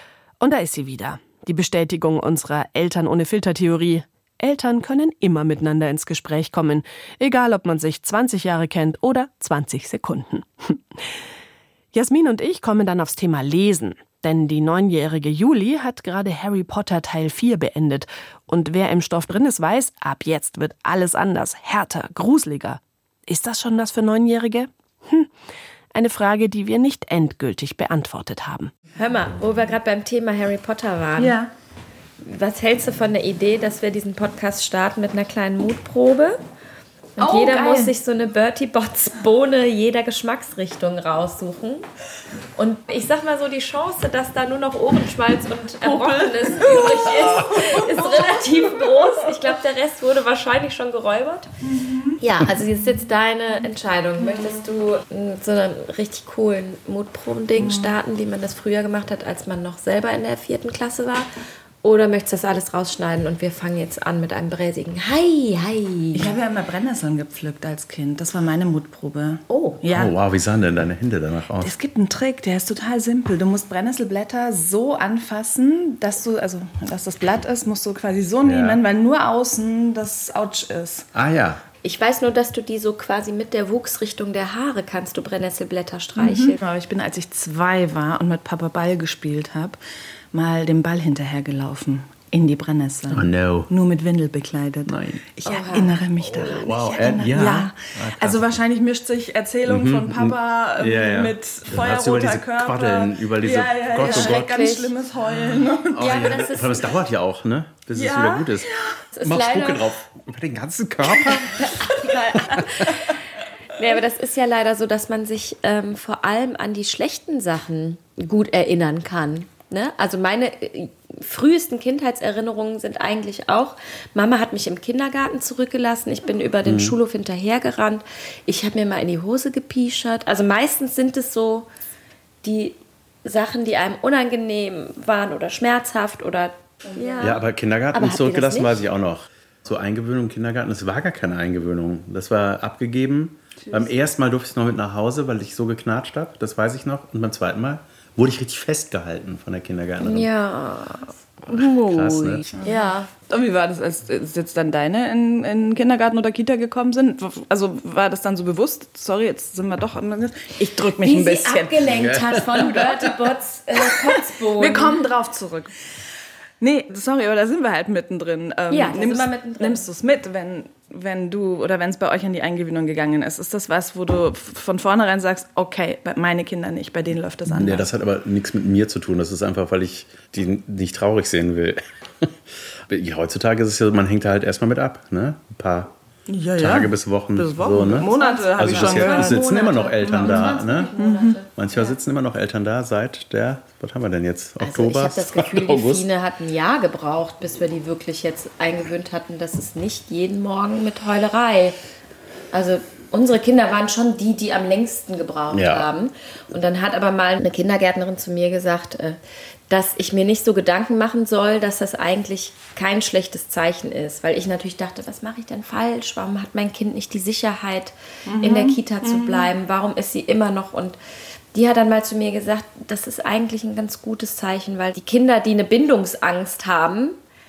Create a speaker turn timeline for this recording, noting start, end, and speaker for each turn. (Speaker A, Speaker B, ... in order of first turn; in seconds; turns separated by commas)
Speaker A: 0.4-10.8, Speaker A: 11.9-25.3, Speaker A: 25.9-28.7, Speaker B: 29.0-31.4, Speaker C: 31.2-31.5, Speaker B: 32.2-36.4, Speaker B: 37.2-41.9, Speaker C: 37.2-37.9, Speaker B: 42.5-51.5, Speaker C: 45.8-49.1, Speaker C: 51.7-52.2, Speaker B: 52.2-61.3, Speaker C: 54.2-54.5, Speaker C: 57.6-58.0, Speaker B: 61.8-66.3, Speaker C: 66.1-70.1, Speaker B: 69.5-69.8, Speaker D: 69.9-71.7, Speaker C: 71.6-81.1, Speaker D: 78.4-78.8, Speaker D: 81.1-81.6, Speaker B: 81.8-86.6, Speaker C: 86.2-89.8, Speaker C: 90.3-106.4, Speaker D: 93.1-93.7, Speaker D: 94.8-95.2, Speaker B: 95.4-96.0, Speaker D: 96.2-98.4, Speaker D: 99.7-104.5, Speaker B: 104.0-104.9, Speaker D: 105.9-111.7, Speaker B: 106.0-106.9, Speaker C: 107.9-109.0, Speaker B: 109.1-109.9, Speaker B: 111.5-113.1, Speaker B: 113.7-131.7, Speaker D: 126.6-127.0, Speaker B: 132.4-137.4, Speaker D: 137.2-150.3, Speaker B: 137.9-138.8, Speaker B: 150.0-151.9, Speaker D: 151.4-152.4, Speaker C: 152.4-152.7, Speaker B: 152.6-153.1, Speaker C: 153.3-162.1, Speaker B: 161.0-165.0, Speaker D: 161.8-162.8, Speaker C: 164.5-165.7, Speaker C: 166.6-177.9, Speaker B: 168.7-169.8, Speaker D: 177.4-182.3, Speaker D: 182.9-185.9, Speaker C: 186.3-189.5, Speaker D: 186.6-190.9, Speaker B: 188.0-192.0, Speaker C: 190.0-191.4, Speaker D: 191.6-196.1, Speaker B: 194.6-201.8, Speaker B: 202.5-209.2, Speaker D: 205.5-205.9, Speaker B: 209.7-221.0, Speaker C: 218.3-219.5, Speaker B: 221.5-227.2